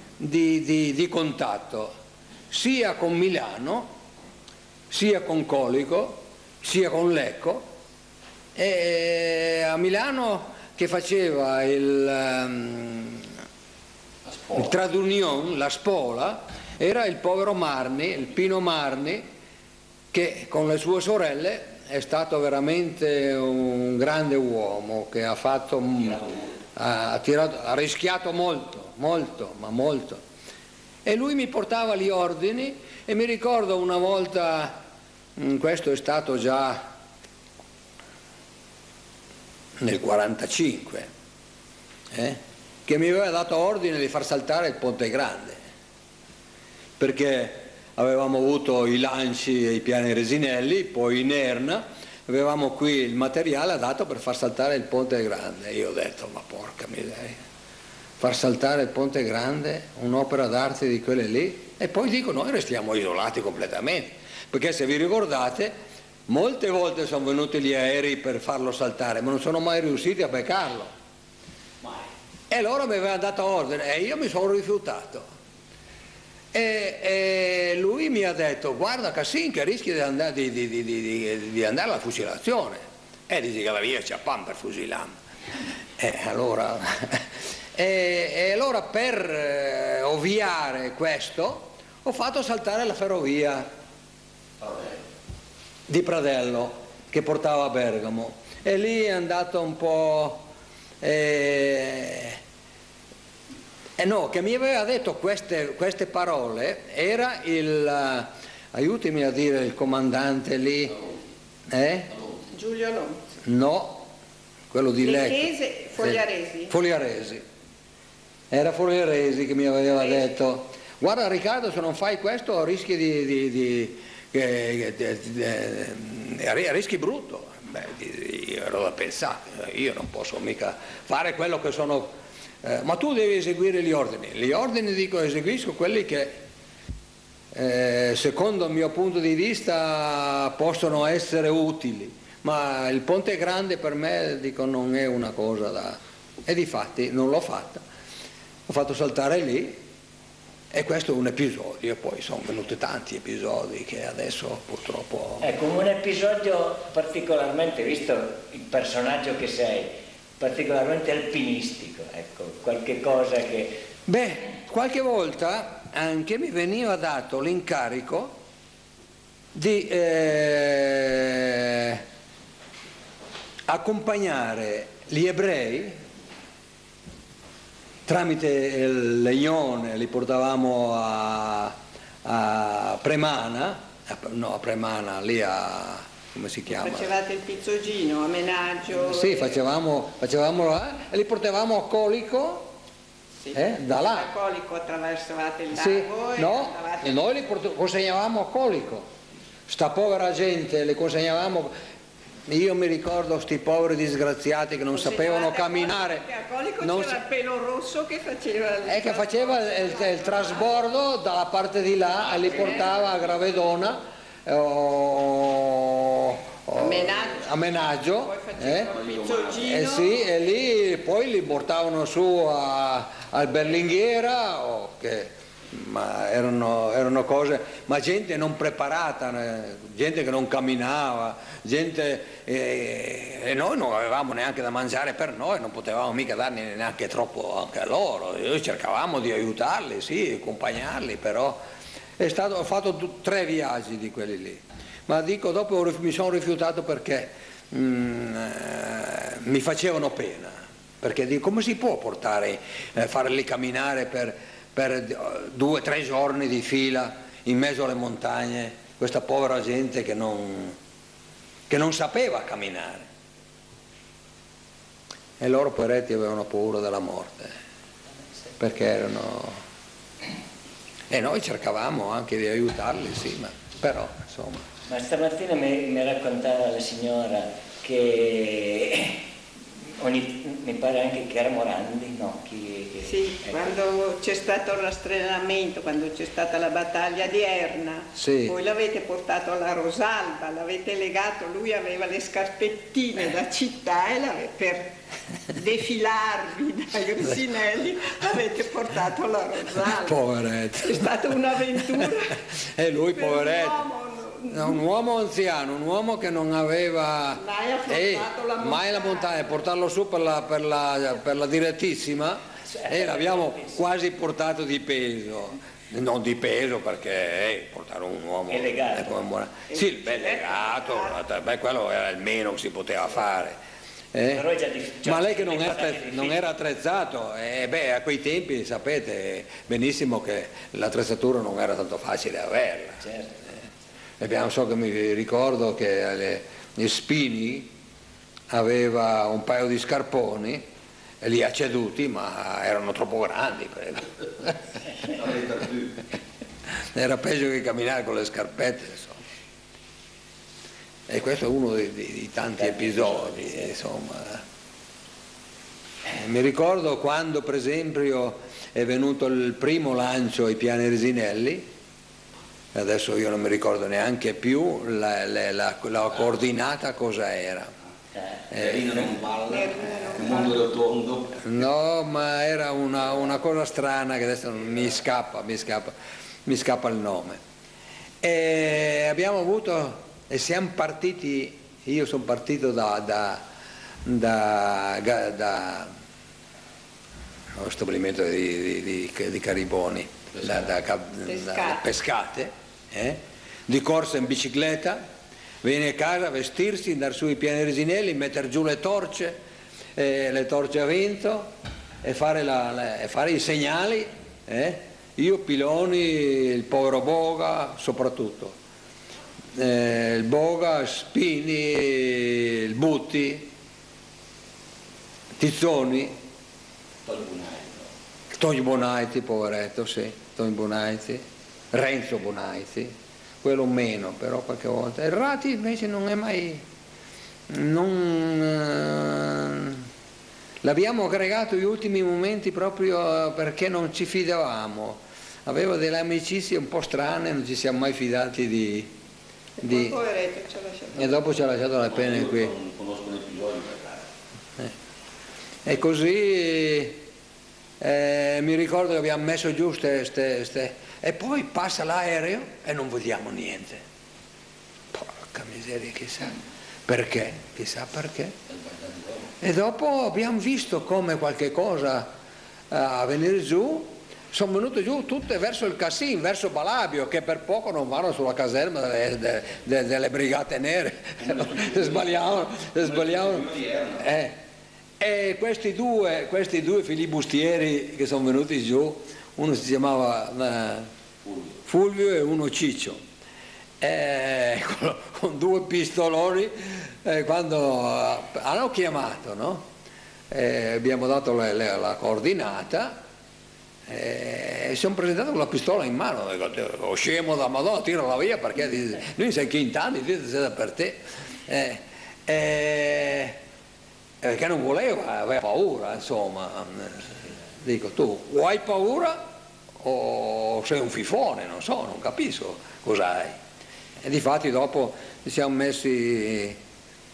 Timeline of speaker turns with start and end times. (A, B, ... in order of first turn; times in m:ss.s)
0:00.2-0:01.9 A
0:02.5-0:03.9 A
0:04.9-0:07.6 A
0:08.5-0:13.3 A
0:14.2-0:14.6 B
0:14.5-0:19.2 A
0:20.1-0:26.2 A
0:26.0-0:26.5 B
0:26.8-0:30.2 A
0:31.0-0:34.8 A
0:35.4-0:36.8 A
0:39.8-0:41.1 A
0:42.1-0:45.6 A
0:47.0-0:57.4 A
0:58.2-1:05.7 A
1:06.3-1:10.9 A
1:11.8-1:12.1 B
1:12.5-1:15.2 A
1:16.5-1:25.1 A
1:26.0-1:33.6 A
1:34.6-1:35.0 B
1:35.9-1:40.5 A
1:41.0-1:42.4 A
1:44.0-1:51.0 A
1:51.7-1:52.1 A
1:52.5-1:53.2 C
1:53.4-1:54.1 A
1:54.7-1:57.4 A
1:55.0-1:56.7 C
1:58.5-2:12.1 A
2:12.6-2:16.4 A
2:17.5-2:27.8 A
2:28.7-2:29.8 A
2:30.7-2:35.4 A
2:35.4-2:43.8 D
2:44.0-2:48.4 A
2:49.5-2:52.0 A
2:53.7-2:56.0 A
2:58.0-3:07.1 A
3:06.7-3:09.6 C
3:09.0-3:12.7 A
3:13.4-3:17.1 C
3:13.5-3:14.3 A
3:15.7-3:19.0 A
3:19.7-3:21.7 A
3:22.5-3:26.2 A
3:24.9-3:30.7 C
3:26.8-3:27.2 A
3:28.8-3:38.9 A
3:32.5-3:32.8 C
3:36.8-3:37.5 C
3:38.1-3:40.2 C
3:38.8-3:39.8 B
3:39.6-4:01.6 A
4:02.2-4:20.8 A
4:21.7-4:23.1 A
4:25.4-4:27.5 A
4:28.6-4:29.6 A
4:31.1-4:34.6 A
4:34.9-4:39.2 D
4:40.0-4:43.8 D
4:43.0-4:54.9 C
4:48.2-4:48.6 A
4:55.5-5:00.2 C
4:59.9-5:01.1 A
5:00.8-5:02.4 C
5:01.9-5:03.8 A
5:03.1-5:04.8 C
5:04.5-5:23.6 A
5:07.3-5:09.6 C
5:12.7-5:13.8 D
5:18.5-5:19.1 D
5:19.7-5:21.2 C
5:24.1-5:24.4 A
5:24.3-5:26.4 D
5:25.0-5:33.0 A
5:33.0-5:33.3 D
5:34.2-5:37.7 A
5:38.5-5:40.6 A
5:41.2-5:44.6 A
5:45.0-5:46.0 B
5:46.9-5:49.2 A
5:51.1-5:54.4 A
5:52.6-5:53.6 D
5:56.1-6:01.7 A
6:02.7-6:07.7 A
6:08.5-6:08.9 A
6:08.5-6:11.5 B
6:09.5-6:10.6 C
6:11.4-6:15.9 A
6:16.4-6:17.4 A
6:18.2-6:23.4 A
6:24.0-6:25.9 A
6:27.6-6:35.0 A
6:31.2-6:31.8 C
6:35.6-6:39.4 A
6:40.0-6:41.5 A
6:42.0-6:48.6 A
6:49.5-6:53.5 A
6:55.4-6:56.1 A
6:57.0-6:57.9 B
6:58.3-7:06.6 A
7:07.5-7:09.8 A
7:10.6-7:18.9 A
7:19.6-7:21.2 C
7:19.6-7:20.0 A
7:20.9-7:22.5 A
7:21.9-7:24.0 B
7:25.6-7:27.0 A
7:27.8-7:33.8 A
7:34.9-7:38.3 A
7:38.5-7:39.3 B
7:39.4-7:42.1 A
7:42.7-7:53.4 A
7:51.2-7:54.1 B
7:54.0-7:54.4 A
7:55.0-8:00.9 A
8:01.2-8:01.6 B
8:01.6-8:03.0 A
8:03.8-8:09.6 A
8:10.3-8:13.0 A
8:13.9-8:23.4 A
8:24.2-8:29.2 A
8:29.8-8:33.3 A
8:34.0-8:36.6 A